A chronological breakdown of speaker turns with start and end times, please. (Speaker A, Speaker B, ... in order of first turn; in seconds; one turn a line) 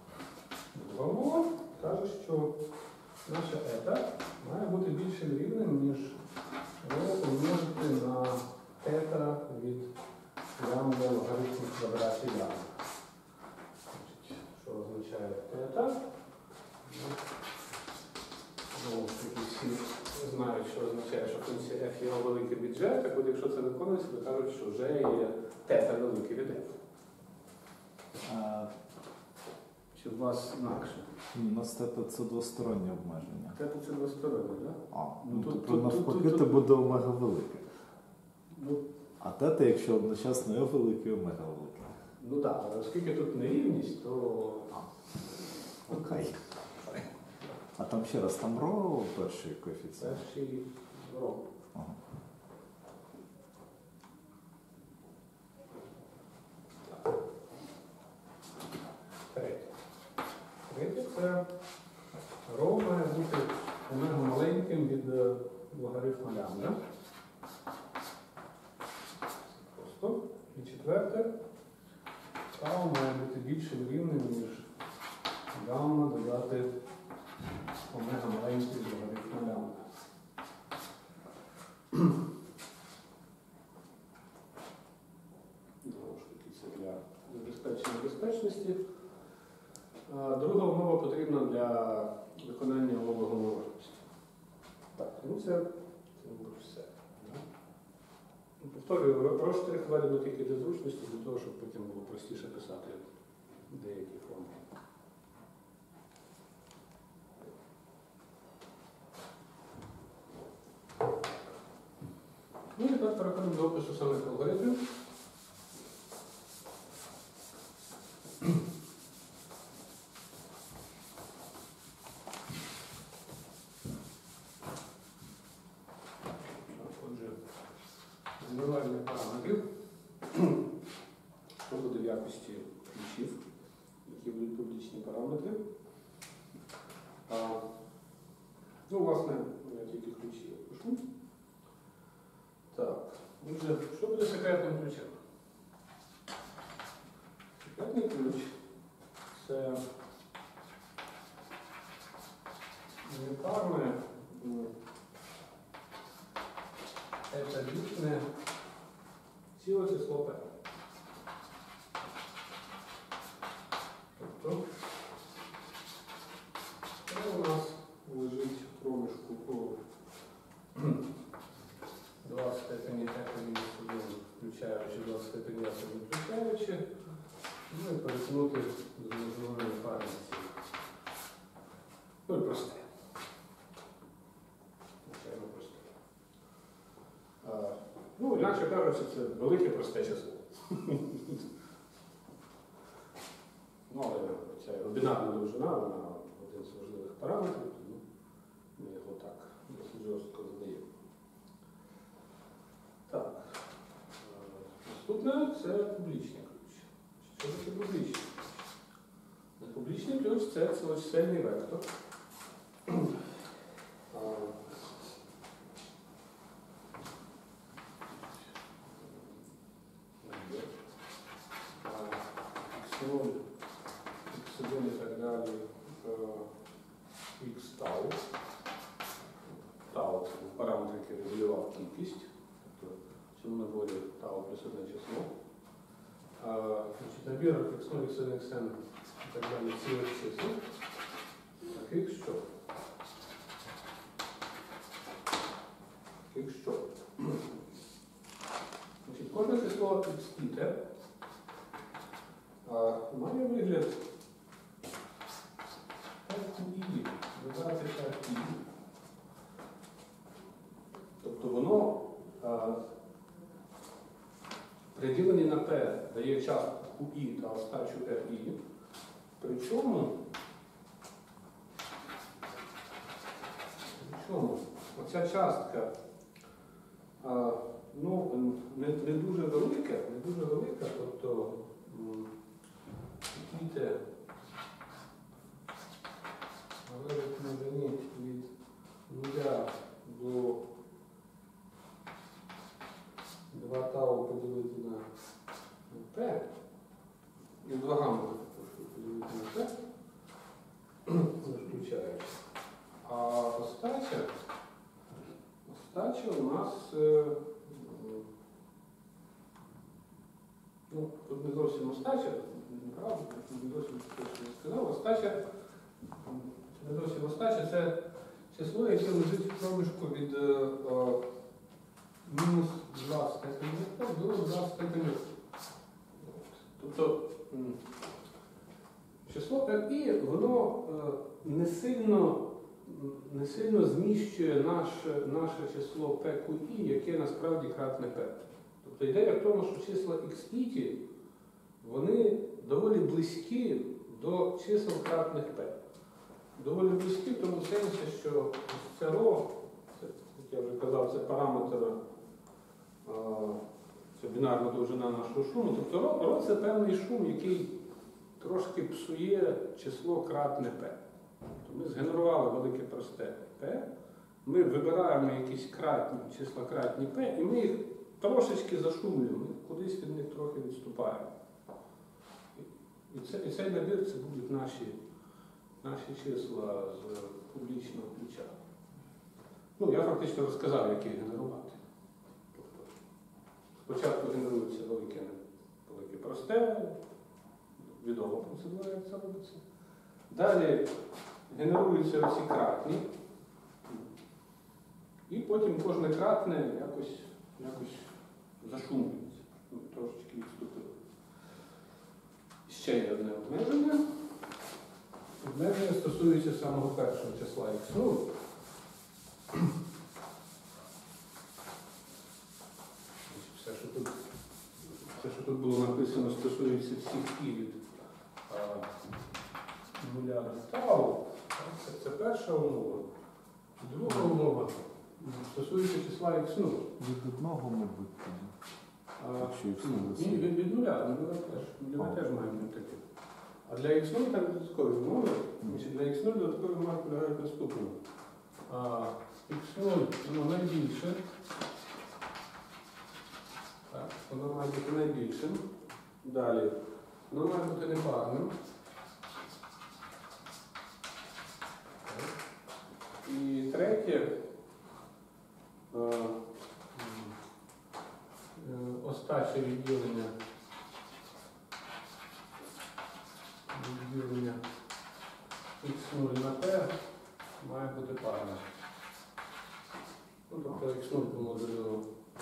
Speaker A: 0.7-2.5
Speaker A: 3.2-6.2
Speaker A: 6.8-9.9
Speaker A: 10.6-12.8
Speaker A: 13.9-16.0
Speaker A: 16.9-17.2
Speaker A: 18.7-26.8
Speaker B: 28.2-28.7
Speaker A: 29.9-31.1
Speaker B: 31.3-33.6
Speaker A: 33.5-36.6
Speaker B: 34.9-37.7
Speaker A: 38.5-38.8
Speaker B: 39.2-42.0
Speaker A: 42.2-44.9
Speaker B: 45.9-46.4
Speaker A: 45.9-47.0
Speaker B: 47.7-50.2
Speaker A: 50.0-51.5
Speaker A: 59.3-59.7
Speaker A: 60.6-61.4
Speaker A: 62.5-66.8
Speaker A: 69.6-71.3
Speaker A: 72.5-74.7
Speaker A: 75.5-76.7
Speaker A: 77.9-79.9
Speaker A: 85.8-88.8
Speaker A: 90.1-94.0
Speaker A: 95.0-95.7
Speaker A: 96.2-97.4
Speaker A: 98.6-103.1
Speaker A: 103.7-104.6
Speaker A: 112.8-114.8
Speaker A: 126.7-127.4
Speaker A: 128.4-129.6
Speaker A: 130.3-130.6
Speaker A: 131.6-133.4
Speaker A: 134.0-135.6
Speaker A: 137.3-137.6
Speaker A: 138.9-141.0
Speaker A: 142.7-145.2
Speaker A: 147.6-148.6
Speaker A: 149.3-149.8
Speaker A: 153.0-154.7
Speaker A: 157.3-158.3
Speaker A: 159.6-160.5
Speaker A: 164.2-164.6
Speaker A: 167.1-169.8
Speaker A: 170.8-171.0
Speaker A: 172.2-176.9
Speaker A: 177.7-180.6
Speaker A: 182.3-182.9
Speaker A: 185.0-185.9
Speaker A: 187.4-191.4
Speaker A: 193.9-198.0
Speaker A: 198.8-200.9
Speaker A: 203.1-203.6
Speaker A: 204.2-208.3
Speaker A: 209.6-211.8
Speaker A: 214.1-214.7
Speaker A: 220.2-220.7
Speaker A: 221.8-223.4
Speaker A: 224.3-226.5
Speaker A: 227.4-228.2
Speaker A: 229.9-235.3
Speaker A: 236.4-240.6
Speaker A: 241.7-242.4
Speaker A: 246.3-247.4
Speaker A: 249.0-250.8
Speaker A: 252.6-254.0
Speaker A: 256.2-258.6
Speaker A: 261.2-262.8
Speaker A: 264.9-268.6
Speaker A: 269.4-270.1
Speaker A: 273.9-275.9
Speaker A: 277.2-282.3
Speaker A: 283.3-284.0
Speaker A: 286.9-288.5
Speaker A: 289.1-290.6
Speaker A: 293.5-295.1
Speaker A: 295.9-296.5
Speaker A: 297.6-299.7
Speaker A: 301.1-302.4
Speaker A: 303.0-304.3
Speaker A: 305.6-308.3
Speaker A: 310.9-315.4
Speaker A: 316.2-318.0
Speaker A: 318.5-321.2
Speaker A: 322.2-325.2
Speaker A: 326.2-327.8
Speaker A: 329.2-341.0
Speaker A: 341.8-345.8
Speaker A: 346.6-352.0
Speaker A: 353.0-353.6
Speaker A: 354.1-357.8
Speaker A: 358.4-361.0
Speaker A: 361.6-363.9
Speaker A: 364.4-371.3
Speaker A: 372.6-375.0
Speaker A: 375.8-378.5
Speaker A: 379.8-381.8
Speaker A: 382.5-382.9
Speaker A: 383.8-387.0
Speaker A: 387.8-389.6
Speaker A: 390.3-390.9
Speaker A: 391.5-393.1
Speaker A: 395.3-400.9
Speaker A: 402.7-404.0
Speaker A: 405.4-408.3
Speaker A: 413.3-414.2
Speaker A: 415.0-417.9
Speaker A: 418.5-418.9
Speaker A: 419.9-423.1
Speaker A: 423.8-426.9
Speaker B: 427.0-428.5
Speaker A: 429.2-433.0
Speaker B: 429.4-430.5
Speaker A: 433.6-438.0
Speaker A: 438.7-441.2
Speaker A: 443.9-445.7
Speaker A: 446.2-446.7
Speaker A: 447.3-448.5
Speaker A: 452.1-452.3
Speaker A: 453.2-454.3
Speaker A: 455.9-456.4
Speaker A: 456.9-457.3
Speaker A: 458.5-460.3
Speaker A: 463.7-464.6
Speaker A: 465.8-466.9
Speaker A: 467.6-468.7
Speaker A: 470.5-472.1